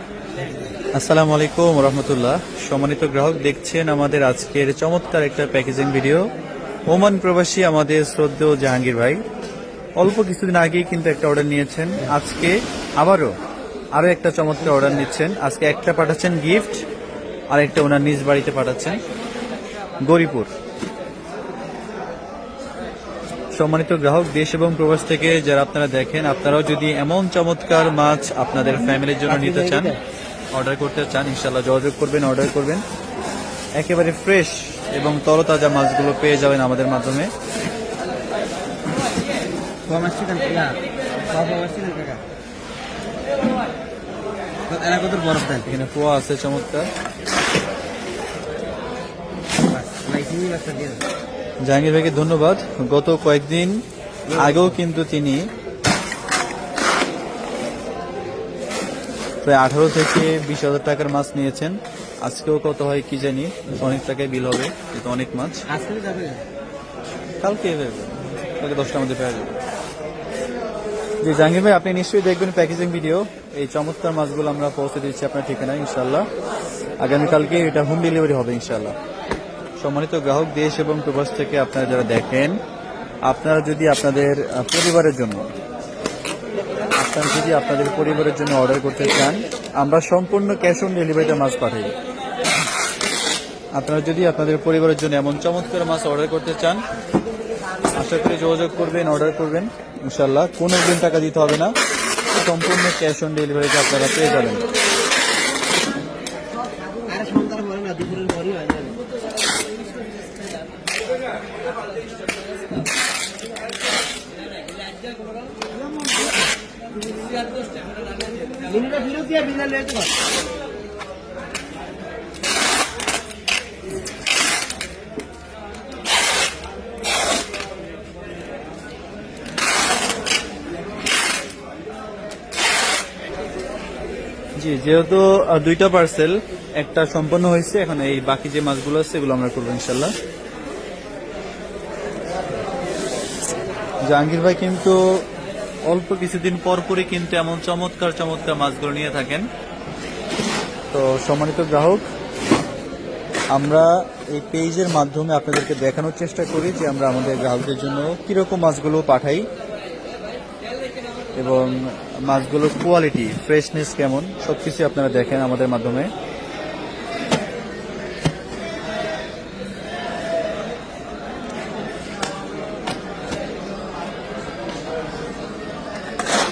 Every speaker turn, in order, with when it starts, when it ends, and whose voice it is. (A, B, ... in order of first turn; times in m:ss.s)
0:00.9-0:06.3 A
0:06.9-0:09.2 A
0:10.0-0:13.3 A
0:13.9-0:16.8 A
0:17.5-0:19.0 A
0:20.0-0:20.5 A
0:23.5-0:30.0 A
0:29.3-0:30.0 B
0:30.5-0:32.8 A
0:33.7-0:37.3 A
0:39.9-0:42.2 B
0:44.7-0:45.7 B
0:45.6-0:46.9 A
0:49.7-0:51.0 B
0:51.6-0:55.5 A
0:59.4-1:05.6 A
1:05.7-1:06.4 B
1:07.4-1:09.5 A
1:11.2-1:16.3 A
1:17.0-1:19.0 A
1:19.8-1:22.6 A
1:23.2-1:25.5 A
1:27.0-1:31.9 A
1:33.7-1:36.8 A
1:37.9-1:41.7 A
1:42.3-1:44.7 A
1:47.0-1:49.0 B
1:58.6-2:00.1 B
2:14.6-2:20.1 A
2:24.0-2:25.2 A
2:25.8-2:29.5 A
2:30.9-2:32.0 A
2:33.5-2:39.5 A
2:41.3-2:46.1 A